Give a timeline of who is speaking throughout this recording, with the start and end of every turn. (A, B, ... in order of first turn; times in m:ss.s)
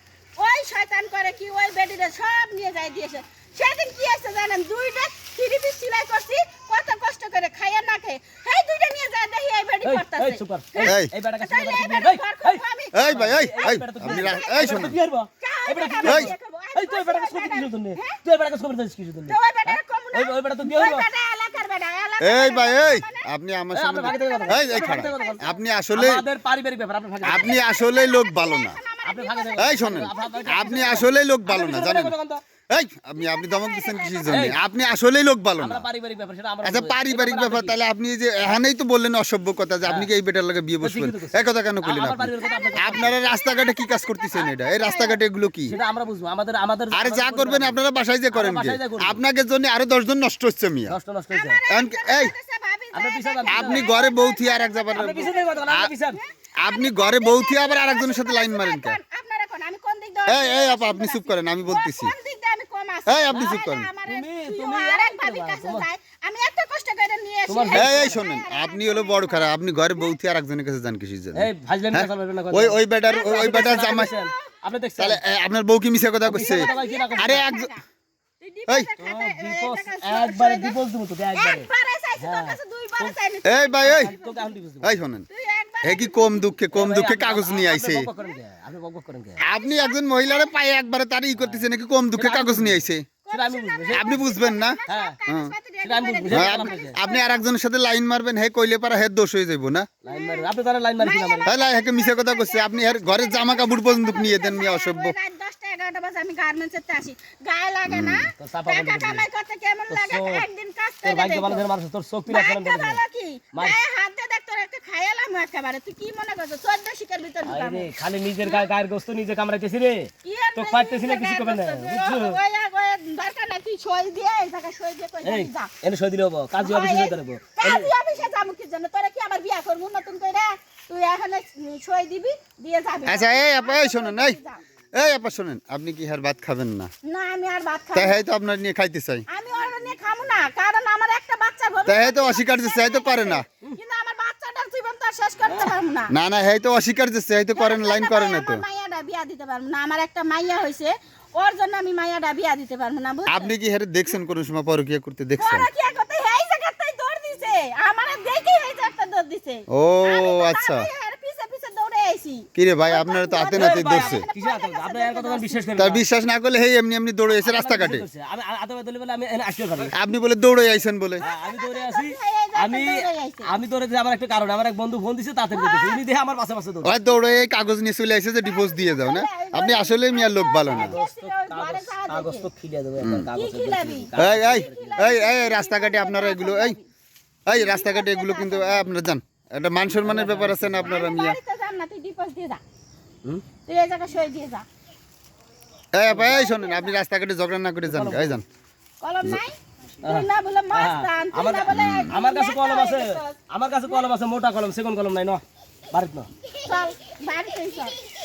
0:00.4-0:13.1 A
0:09.8-0:21.1 B
0:10.8-0:11.1 C
0:12.9-0:15.0 C
0:14.2-0:14.8 A
0:15.4-0:18.2 A
0:16.0-0:16.3 C
0:19.2-0:23.3 A
0:22.2-0:26.2 C
0:23.7-0:27.6 B
0:24.1-0:25.6 A
0:27.2-0:28.8 C
0:27.3-0:31.0 A
0:29.0-0:32.4 B
0:29.6-0:32.2 C
0:32.7-0:35.9 C
0:33.1-0:34.6 A
0:34.3-0:34.6 B
0:35.6-0:37.8 B
0:36.6-0:45.7 C
0:40.8-0:43.2 B
0:42.4-0:45.2 A
0:45.6-0:47.8 B
0:46.9-0:51.0 C
0:48.3-0:49.2 B
0:50.9-0:51.6 B
0:51.3-1:10.2 A
0:51.7-0:52.3 C
0:52.9-0:53.9 B
0:53.5-0:55.9 C
0:54.9-0:56.2 B
0:56.6-0:59.0 C
1:00.3-1:02.1 C
1:03.1-1:03.9 C
1:04.0-1:05.9 B
1:07.5-1:08.2 B
1:07.7-1:14.1 C
1:11.3-1:15.2 B
1:13.1-1:14.5 A
1:15.0-1:17.7 C
1:16.2-1:17.5 B
1:16.3-1:17.8 A
1:18.4-1:20.8 A
1:19.0-1:23.2 B
1:21.3-1:24.6 A
1:23.4-1:24.1 C
1:23.8-1:25.0 B
1:24.8-1:25.2 C
1:25.3-1:26.6 A
1:25.8-1:28.1 C
1:26.7-1:29.4 B
1:29.4-1:33.0 C
1:29.4-1:30.5 A
1:31.3-1:34.2 B
1:33.2-1:37.4 A
1:33.9-1:35.5 C
1:34.9-1:35.2 B
1:35.8-1:37.0 B
1:36.3-1:39.9 C
1:40.0-1:41.5 B
1:40.0-1:51.6 A
1:41.4-1:45.1 C
1:47.9-1:48.3 C
1:48.4-1:49.2 B
1:49.9-1:50.4 B
1:51.0-1:53.0 B
1:52.3-1:57.9 A
1:57.4-2:02.4 B
1:58.4-1:58.7 A
2:00.2-2:05.7 A
2:05.2-2:07.9 B
2:06.6-2:14.6 A
2:13.0-2:14.4 C
2:14.9-2:16.9 C
2:17.0-2:18.2 A
2:17.9-2:19.2 C
2:19.3-2:26.1 A
2:21.9-2:23.4 C
2:25.5-2:25.7 B
2:26.1-2:28.6 C
2:27.5-2:33.5 A
2:33.3-2:35.7 C
2:35.4-2:45.7 A
2:39.7-2:40.9 C
2:42.5-2:44.2 C
2:43.5-2:46.0 B
2:45.8-2:48.0 C
2:47.3-2:49.9 B
2:49.9-2:51.2 C
2:51.2-2:53.5 A
2:51.2-2:56.9 B
2:55.5-2:56.0 A
2:56.8-3:01.0 C
2:58.4-3:02.5 A
3:00.7-3:05.0 B
3:03.0-3:03.3 C
3:03.3-3:06.9 A
3:04.2-3:06.8 C
3:07.5-3:11.4 C
3:07.5-3:08.9 A
3:09.9-3:11.0 B
3:10.8-3:12.6 A
3:13.6-3:14.6 A
3:15.9-3:18.4 C
3:16.1-3:16.5 B
3:16.2-3:17.0 A
3:17.8-3:18.4 B
3:19.0-3:24.1 A
3:20.0-3:26.3 B
3:21.7-3:22.1 C
3:26.6-3:28.0 A